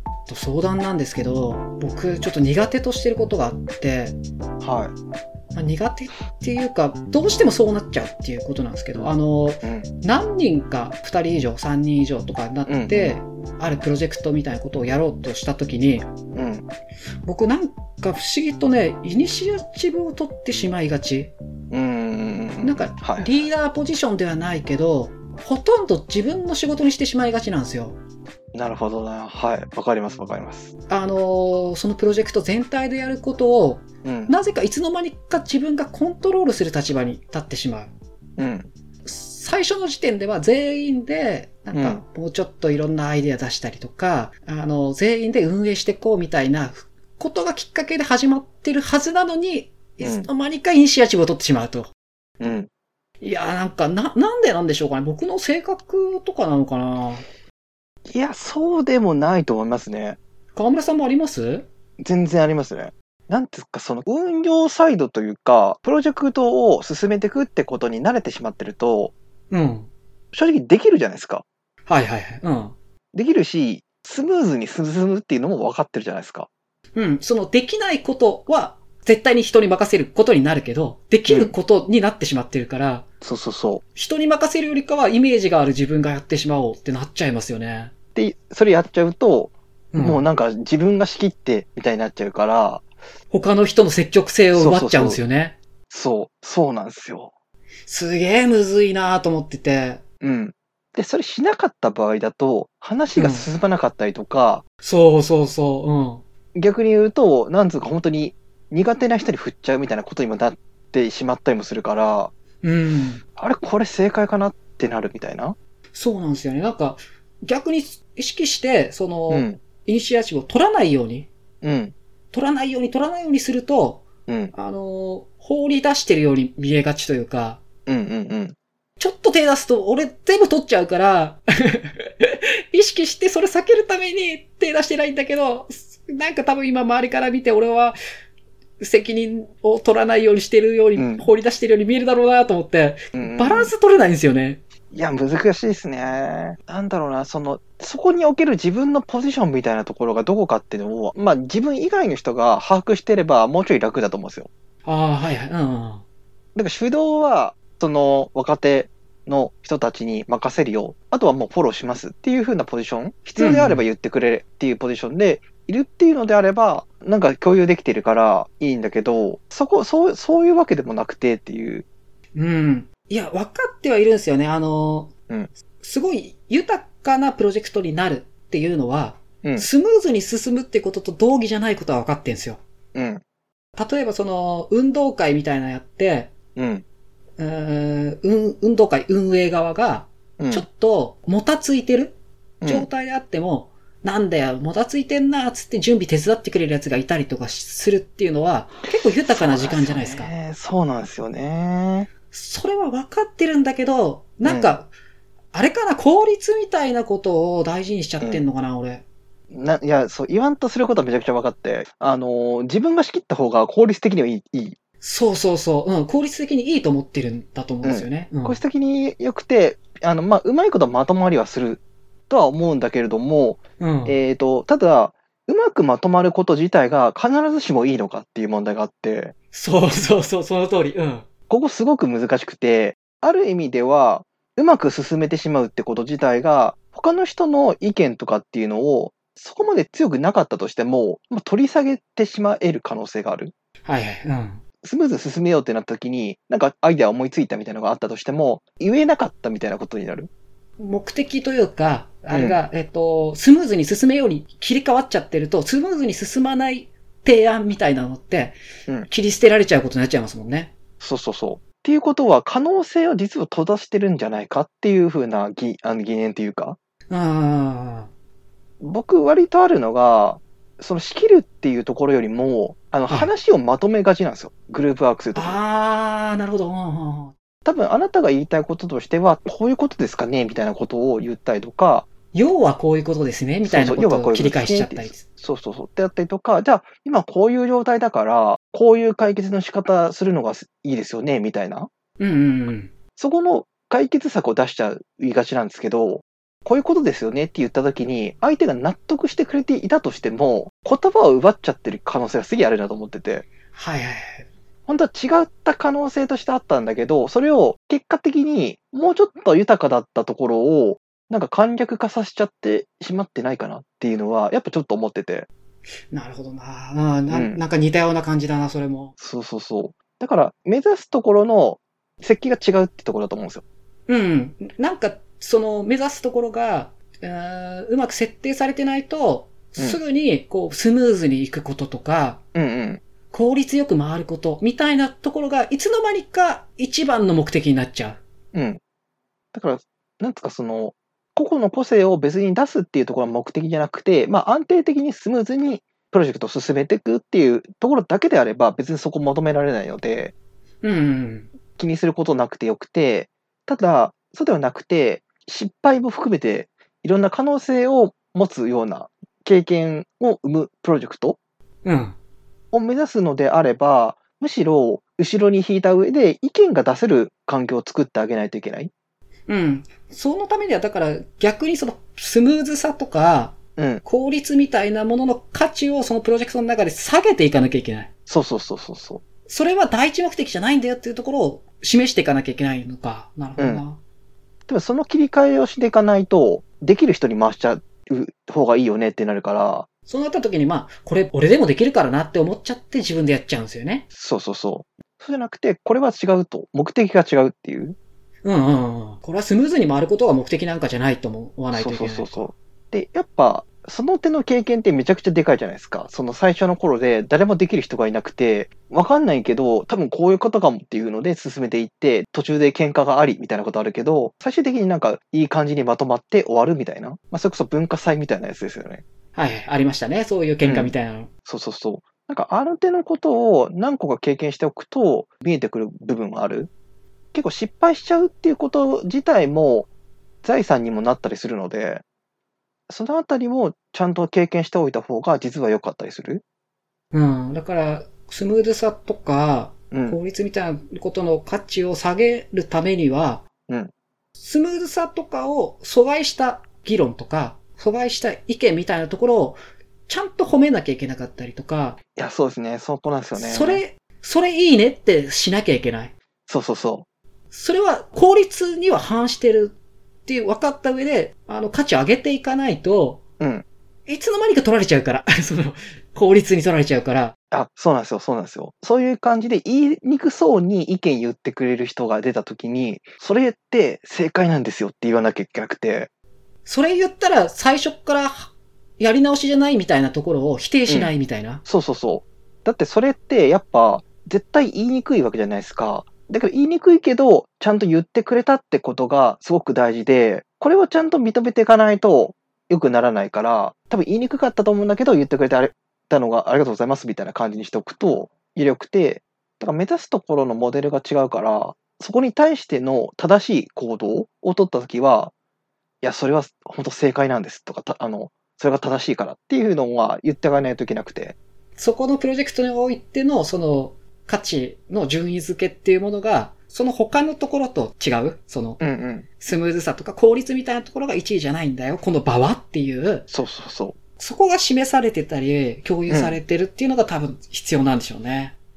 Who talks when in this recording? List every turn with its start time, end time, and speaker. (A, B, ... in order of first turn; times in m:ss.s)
0:00.3-0:04.2 A
0:04.6-0:04.9 B
0:05.5-0:16.1 A
0:09.6-0:09.9 B
0:12.7-0:13.2 B
0:16.3-0:16.7 B
0:17.2-0:21.3 A
0:21.7-0:23.4 B
0:22.6-0:28.0 A
0:28.5-0:30.7 B
0:30.9-0:37.9 A
0:34.0-0:34.3 B
0:38.4-0:38.7 B
0:39.0-0:51.9 A
0:41.7-0:42.0 B
0:50.0-0:50.3 B
0:52.4-0:52.7 B
0:53.2-0:57.2 A
0:58.1-1:00.2 B
1:00.5-1:01.6 A
1:02.0-1:09.1 B
1:09.5-1:09.9 A
1:10.3-1:11.4 B
1:11.9-1:12.7 A
1:13.1-1:16.5 B
1:17.0-1:23.0 A
1:21.3-1:21.5 B
1:23.2-1:23.8 B
1:23.9-1:27.9 A
1:28.1-1:32.8 B
1:29.9-1:30.2 A
1:33.3-1:35.6 A
1:34.5-1:35.2 B
1:35.9-1:37.3 B
1:37.9-1:40.0 A
1:40.2-1:44.6 B
1:43.2-1:43.5 A
1:44.8-1:46.2 A
1:46.5-1:52.3 B
1:52.6-1:53.2 A
1:53.4-1:55.6 B
1:55.9-2:01.3 A
1:59.3-1:59.6 B
2:01.6-2:01.9 B
2:02.3-2:07.6 A
2:04.3-2:04.5 B
2:07.9-2:08.6 B
2:09.0-2:18.0 A
2:18.8-2:24.6 A
2:21.0-2:21.3 B
2:23.1-2:23.7 B
2:24.9-2:34.5 B
2:34.8-2:36.0 A
2:36.5-2:51.8 B
2:43.4-2:43.8 A
2:52.3-2:55.1 A
2:55.8-3:02.6 A
3:02.9-3:03.2 B
3:03.8-3:06.3 A
3:06.6-3:06.8 B
3:07.4-3:20.3 A
3:10.4-3:10.6 B
3:12.6-3:12.9 B
3:19.2-3:22.1 B
3:22.3-3:24.9 A
3:24.4-3:24.8 B
3:25.5-3:29.0 A
3:29.5-3:34.8 B
3:35.0-3:38.6 A
3:37.8-3:49.3 B
3:43.8-3:44.2 A
3:49.5-3:51.2 A
3:51.5-4:03.5 B
4:03.8-4:04.6 A
4:04.8-4:10.3 B
4:10.8-4:20.7 A
4:12.3-4:12.6 B
4:21.0-4:26.8 B
4:27.1-4:28.1 A
4:28.8-4:35.6 B
4:35.3-4:37.3 A
4:37.6-4:42.0 B
4:42.3-4:45.2 A
4:43.6-4:51.9 B
4:52.2-4:52.9 A
4:53.2-5:03.5 B
5:03.7-5:04.5 A
5:04.9-5:15.5 B
5:16.1-5:19.1 A
5:17.3-5:17.6 B
5:19.2-5:23.6 B
5:24.1-5:32.4 A
5:32.5-5:33.0 B
5:33.3-5:38.2 A
5:38.5-5:38.8 B
5:39.5-5:50.3 B
5:50.8-5:51.5 A
5:51.8-6:01.4 B
6:01.8-6:02.2 A
6:02.7-6:08.9 B
6:09.5-6:18.1 A
6:13.8-6:14.0 B
6:18.3-6:19.2 B
6:19.5-6:24.0 A
6:23.6-6:23.8 B
6:24.7-6:29.9 B
6:30.1-6:34.0 A
6:34.1-6:38.0 B
6:38.4-6:42.5 A
6:41.7-6:59.0 B
6:59.3-7:01.3 A
7:00.6-7:00.9 B
7:01.4-7:06.7 B
7:07.3-7:09.9 B
7:10.4-7:12.0 B
7:12.9-7:16.4 B
7:17.1-7:23.4 A
7:19.9-7:20.2 B
7:24.4-7:32.0 A
7:32.2-7:33.8 B
7:33.3-7:36.1 A
7:36.5-7:37.1 B
7:37.5-7:43.2 A
7:43.4-7:43.6 B
7:44.1-7:47.3 A
7:47.5-7:56.1 B
7:56.6-8:01.6 A
8:01.6-8:25.3 B
8:26.0-8:31.4 B
8:31.8-8:38.8 A
8:38.8-8:39.2 B
8:39.4-8:43.2 A
8:43.3-8:44.0 B
8:44.2-8:48.5 A
8:46.1-8:46.4 B